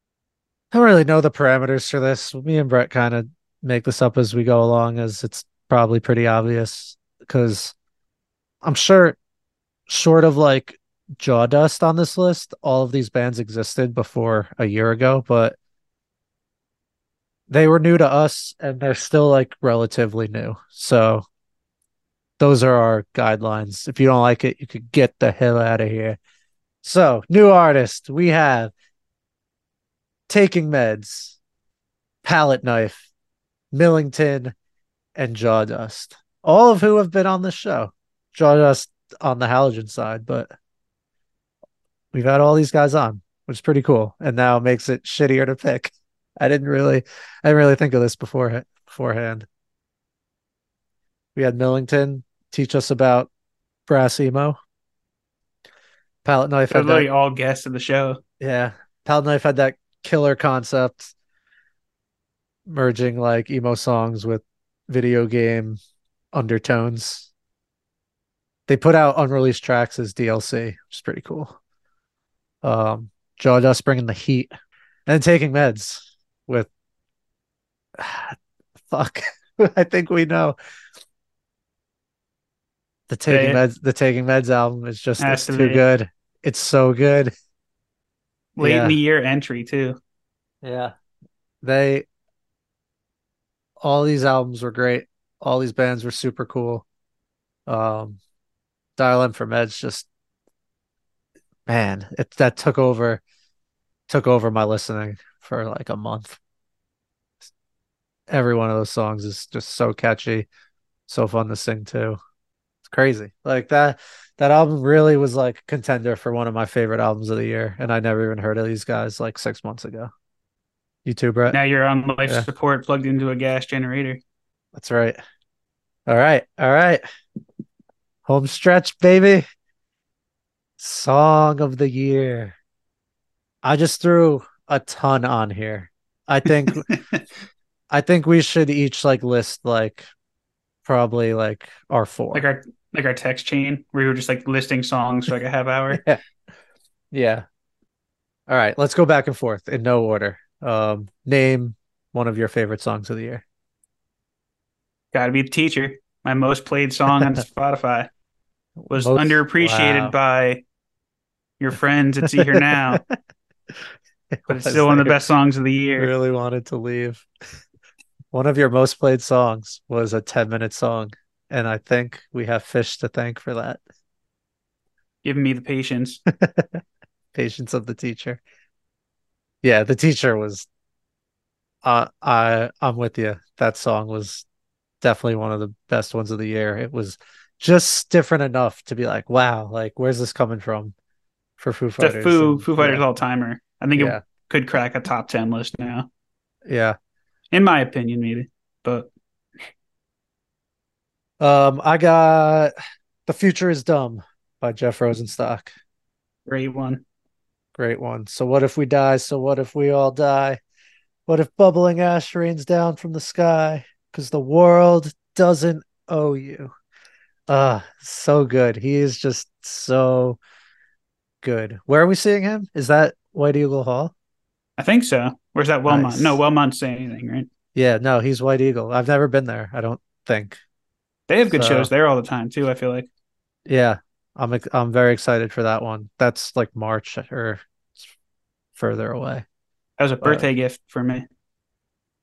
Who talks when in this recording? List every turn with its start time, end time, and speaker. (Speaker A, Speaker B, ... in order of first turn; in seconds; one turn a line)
Speaker A: 0.7-7.7
Speaker A: 8.6-9.2
Speaker A: 9.9-15.6
Speaker A: 17.5-21.2
Speaker A: 22.4-26.2
Speaker A: 26.8-28.7
Speaker A: 30.3-31.4
Speaker A: 32.2-33.1
Speaker A: 33.7-34.5
Speaker A: 35.1-40.5
Speaker A: 42.1-49.5
Speaker A: 51.4-53.3
Speaker A: 53.9-54.6
Speaker A: 56.2-57.1
Speaker B: 56.7-58.2
Speaker A: 58.4-61.1
Speaker A: 62.7-65.8
Speaker A: 66.3-67.3
Speaker A: 68.7-71.6
Speaker A: 72.6-74.5
Speaker A: 75.1-76.7
Speaker A: 78.0-78.4
Speaker A: 78.9-80.5
Speaker A: 83.1-87.3
Speaker B: 83.3-83.6
Speaker B: 85.2-85.8
Speaker B: 88.5-90.0
Speaker A: 88.6-89.0
Speaker A: 90.6-90.9
Speaker A: 91.6-92.0
Speaker A: 93.8-96.8
Speaker A: 97.7-98.2
Speaker A: 99.0-100.1
Speaker A: 101.7-103.2
Speaker A: 104.1-106.4
Speaker A: 108.3-110.5
Speaker A: 111.1-112.2
Speaker A: 112.8-120.1
Speaker A: 121.0-121.6
Speaker B: 121.5-124.2
Speaker A: 124.7-125.2
Speaker A: 126.1-127.0
Speaker A: 128.2-129.4
Speaker A: 130.8-132.6
Speaker A: 133.6-136.8
Speaker B: 136.7-137.2
Speaker A: 137.9-140.1
Speaker A: 140.8-142.4
Speaker B: 142.3-146.0
Speaker A: 147.1-147.4
Speaker A: 148.5-153.4
Speaker B: 155.1-158.1
Speaker A: 158.8-160.1
Speaker B: 158.9-160.6
Speaker B: 161.6-163.0
Speaker A: 162.5-163.2
Speaker A: 163.7-165.1
Speaker B: 164.5-166.1
Speaker A: 166.0-167.3
Speaker A: 168.3-173.8
Speaker B: 175.2-176.2
Speaker A: 176.3-176.8
Speaker A: 177.3-178.4
Speaker A: 179.6-180.7
Speaker A: 181.8-184.4
Speaker A: 185.0-190.9
Speaker A: 191.6-193.0
Speaker B: 192.0-196.1
Speaker A: 193.9-194.2
Speaker A: 196.7-197.0
Speaker B: 197.5-199.1
Speaker A: 201.4-202.7
Speaker A: 203.3-205.7
Speaker B: 206.5-207.0
Speaker A: 207.7-210.6
Speaker A: 211.3-216.7
Speaker A: 217.5-220.4
Speaker A: 221.4-224.1
Speaker B: 224.8-227.5
Speaker A: 225.9-226.4
Speaker A: 227.7-230.6
Speaker B: 231.3-233.1
Speaker A: 231.5-231.9
Speaker A: 233.7-238.1
Speaker A: 238.8-239.4
Speaker B: 240.0-241.2
Speaker A: 240.2-240.5